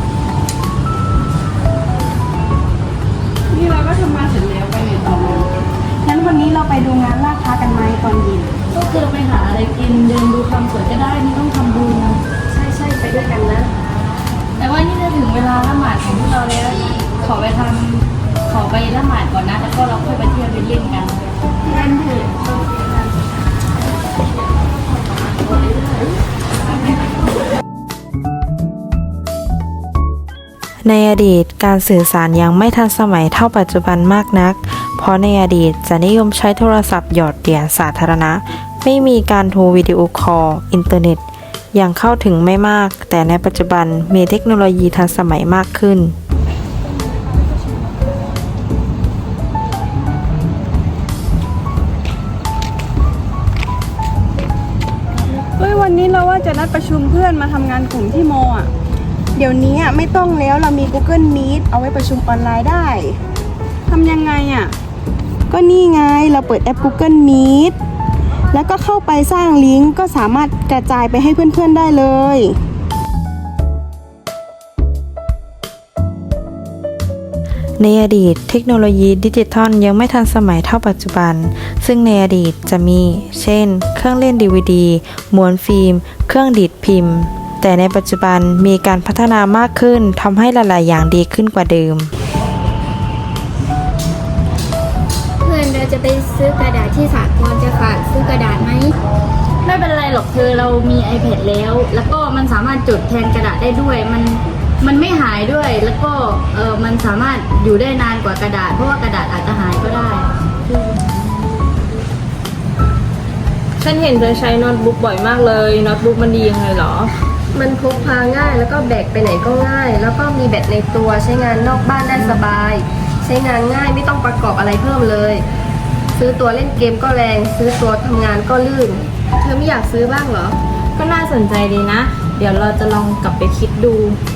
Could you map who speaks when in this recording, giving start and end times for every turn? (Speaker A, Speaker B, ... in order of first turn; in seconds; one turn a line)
Speaker A: 3.5-5.5
Speaker A: 6.1-8.5
Speaker B: 8.7-12.2
Speaker C: 12.5-13.7
Speaker B: 14.6-21.2
Speaker C: 21.7-22.3
Speaker D: 30.8-41.2
Speaker D: 41.7-46.1
Speaker A: 55.6-58.7
Speaker A: 59.4-63.2
Speaker A: 63.9-64.7
Speaker A: 65.5-67.8
Speaker A: 68.5-72.6
Speaker D: 77.8-92.1
Speaker E: 95.4-98.9
Speaker B: 99.6-110.3
Speaker F: 113.8-117.1
Speaker C: 117.5-125.5
Speaker C: 126.2-130.6
Speaker F: 131.0-134.2